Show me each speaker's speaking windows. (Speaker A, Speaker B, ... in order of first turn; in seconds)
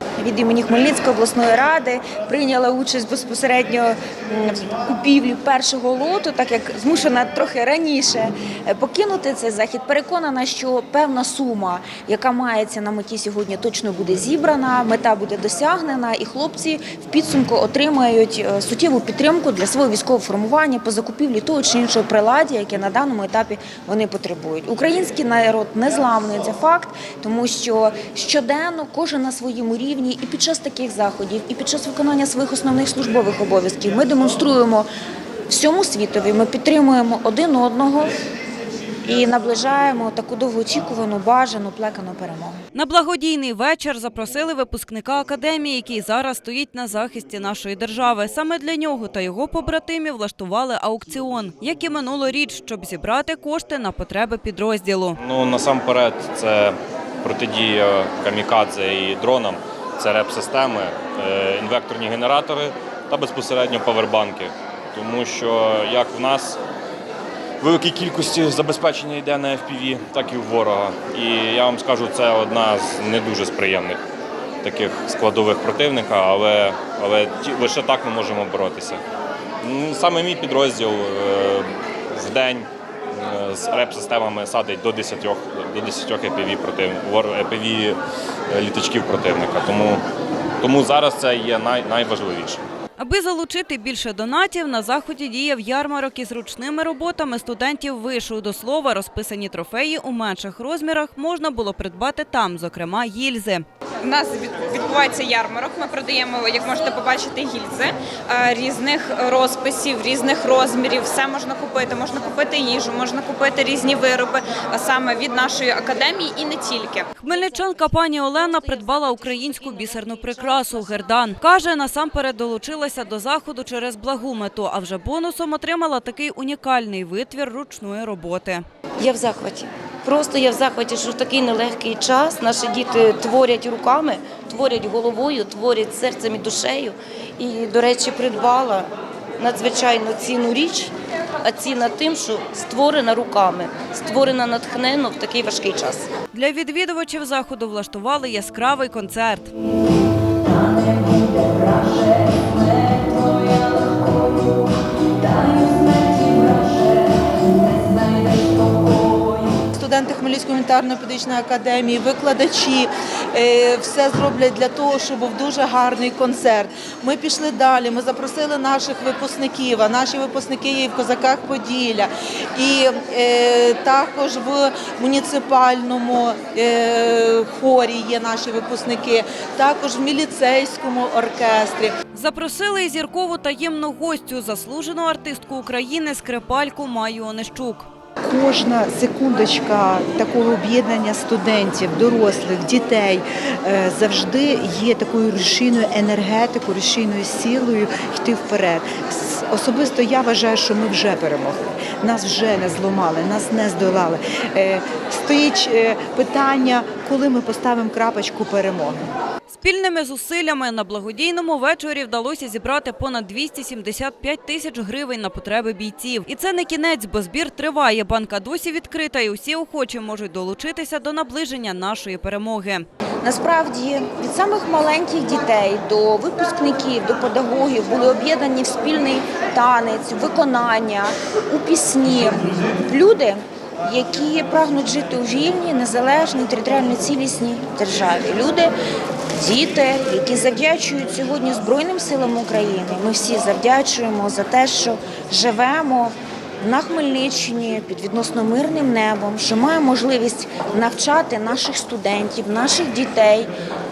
Speaker A: 0.2-34.9, 35.5-38.1, 39.0-42.6, 223.2-238.7, 239.3-253.5
Speaker B: 42.7-55.2, 93.0-103.6, 117.2-128.6, 146.3-149.5, 182.1-187.9, 209.5-222.8
Speaker C: 55.2-66.6, 67.6-74.0, 74.6-79.0, 79.6-88.0, 88.5-90.0, 90.6-92.6
Speaker D: 104.0-117.1
Speaker E: 117.3-121.1, 129.0-146.1, 150.4-154.5, 155.2-159.5
Speaker F: 159.7-181.9
Speaker G: 188.2-209.0